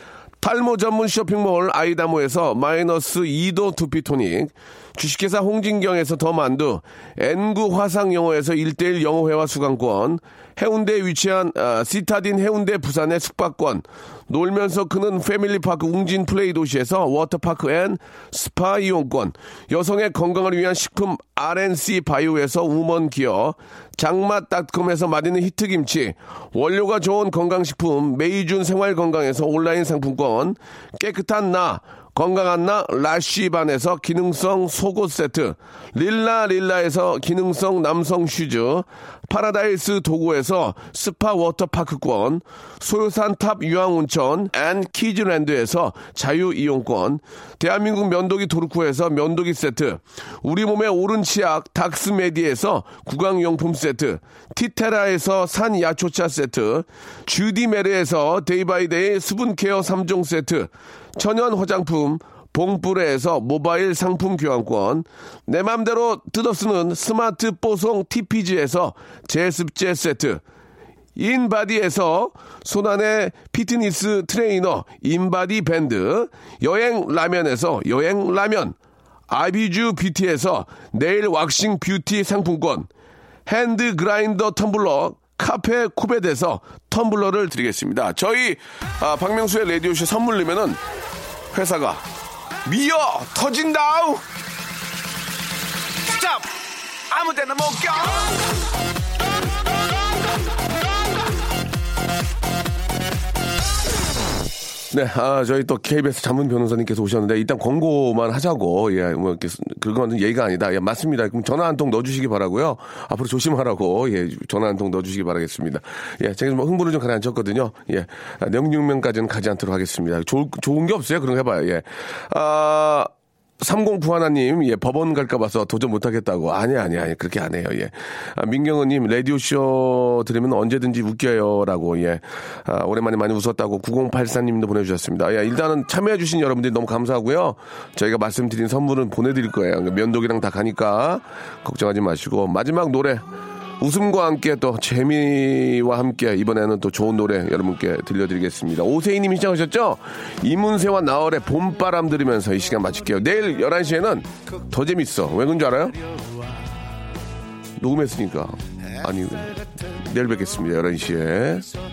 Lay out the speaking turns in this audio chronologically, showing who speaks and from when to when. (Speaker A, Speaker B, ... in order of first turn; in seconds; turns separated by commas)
Speaker A: 0.4-70.4, Speaker A: 71.2-78.8, Speaker A: 79.3-82.9, Speaker A: 83.5-90.8, Speaker A: 91.5-92.0, Speaker A: 92.6-94.2, Speaker A: 96.1-96.5, Speaker A: 97.1-98.3, Speaker A: 104.9-143.2, Speaker A: 143.8-156.0, Speaker A: 157.8-161.7